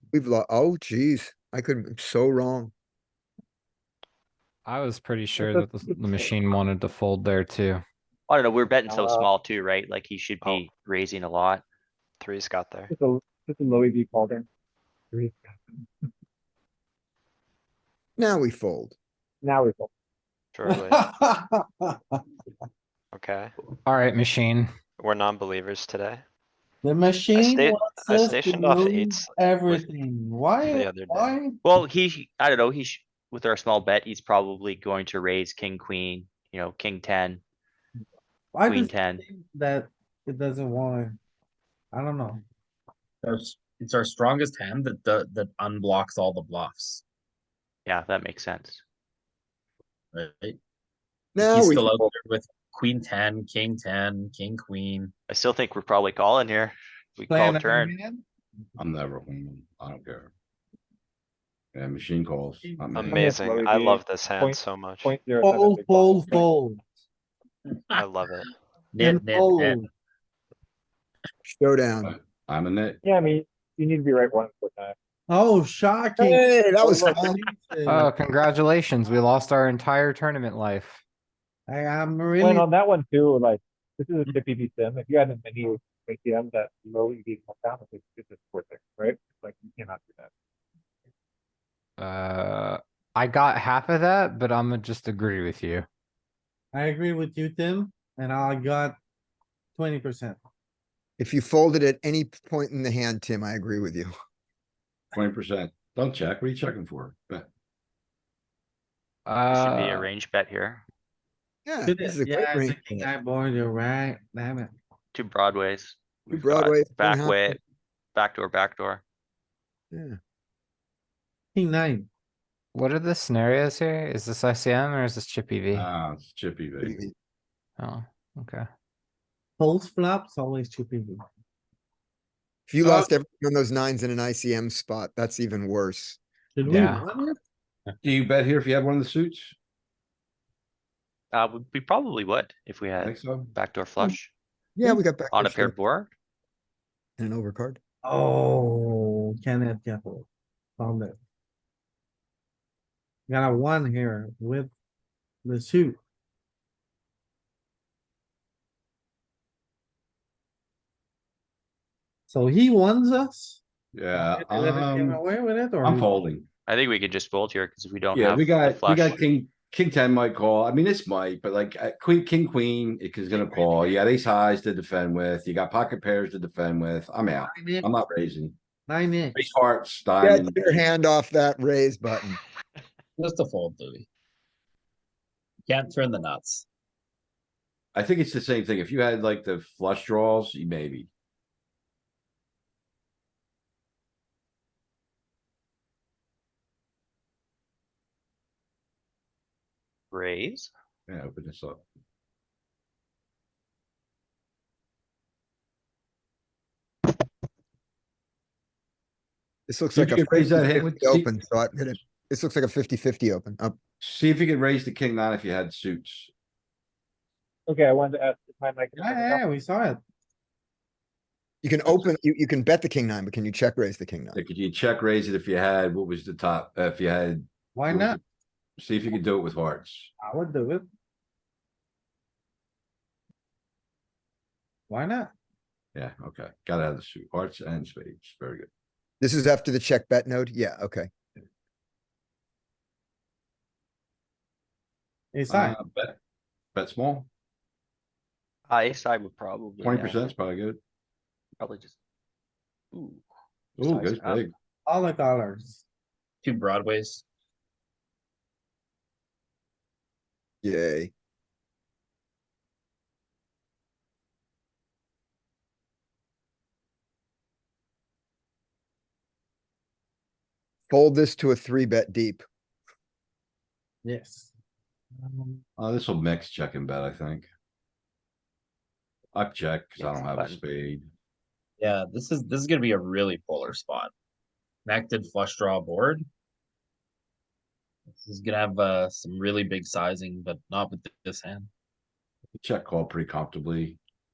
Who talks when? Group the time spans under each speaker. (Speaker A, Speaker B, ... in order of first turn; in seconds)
Speaker A: 0.1-2.7, 18.2-18.9, 51.3-51.9, 71.5-72.1, 76.3-77.4, 101.2-104.1, 111.6-113.1, 116.3-117.6, 119.9-120.2, 126.8-127.1, 132.7-136.2, 144.8-145.7, 147.2-147.8, 180.2-182.4, 209.7-213.8, 221.6-224.4, 239.2-241.1, 260.6-261.1, 270.9-272.4
Speaker B: 4.7-7.8, 23.9-24.7, 77.8-81.0, 92.0-95.9, 109.2-110.1, 122.7-125.9, 127.8-128.7, 136.7-137.0
Speaker C: 5.4-5.7, 8.9-9.3, 12.9-14.4, 15.1-15.5, 19.4-19.9, 63.0-66.5, 73.0-74.9, 76.2-77.3, 82.4-90.3, 217.7-219.4
Speaker D: 8.3-11.6, 31.6-37.4, 38.6-39.2, 47.9-48.8, 55.3-57.9, 109.5-110.8, 115.1-117.6, 118.1-119.0, 141.3-144.3, 145.3-146.1, 166.7-169.2, 200.1-200.7, 248.7-250.2, 251.6-252.0, 252.9-253.2, 253.8-254.4, 280.0-280.6
Speaker E: 12.2-12.9, 20.5-21.0, 23.1-23.5, 25.0-26.2, 27.3-29.9, 30.6-31.4, 63.0-65.1, 68.0-68.4
Speaker F: 20.6-21.9, 26.8-31.6, 38.5-41.2, 41.9-42.4, 57.3-58.2, 65.4-66.8, 69.0-69.8, 75.3-76.4, 77.2-78.1, 81.7-82.7, 96.7-99.0, 99.8-100.4, 111.8-114.7, 121.5-122.1, 129.6-131.2, 132.8-133.1, 136.6-137.4, 148.0-151.1, 153.3-154.7, 155.4-156.0, 162.3-163.6, 164.1-166.2, 177.3-177.9, 178.9-179.4, 218.9-220.0, 227.8-228.2, 230.2-230.8, 234.9-235.3, 245.3-245.8, 254.8-255.8, 274.0-274.5, 275.1-275.6
Speaker G: 43.2-47.0, 50.1-50.6, 51.4-55.1, 67.7-69.8, 183.2-184.1, 185.7-186.7, 256.4-257.2, 281.8-284.1, 284.9-286.3, 288.1-291.7
Speaker H: 58.8-60.3, 61.7-63.2, 72.0-73.0, 105.1-107.5, 125.7-127.0, 138.0-139.5, 143.0-143.5, 163.9-165.2, 165.8-166.5, 168.1-178.6, 179.3-180.7, 187.9-191.1, 201.1-201.8, 209.9-211.3, 214.0-216.3, 224.3-228.2, 228.8-230.1, 235.9-238.7, 245.5-246.2, 246.7-247.3, 249.8-250.8, 253.8-254.5, 275.8-277.5, 279.3-281.1, 292.5-294.0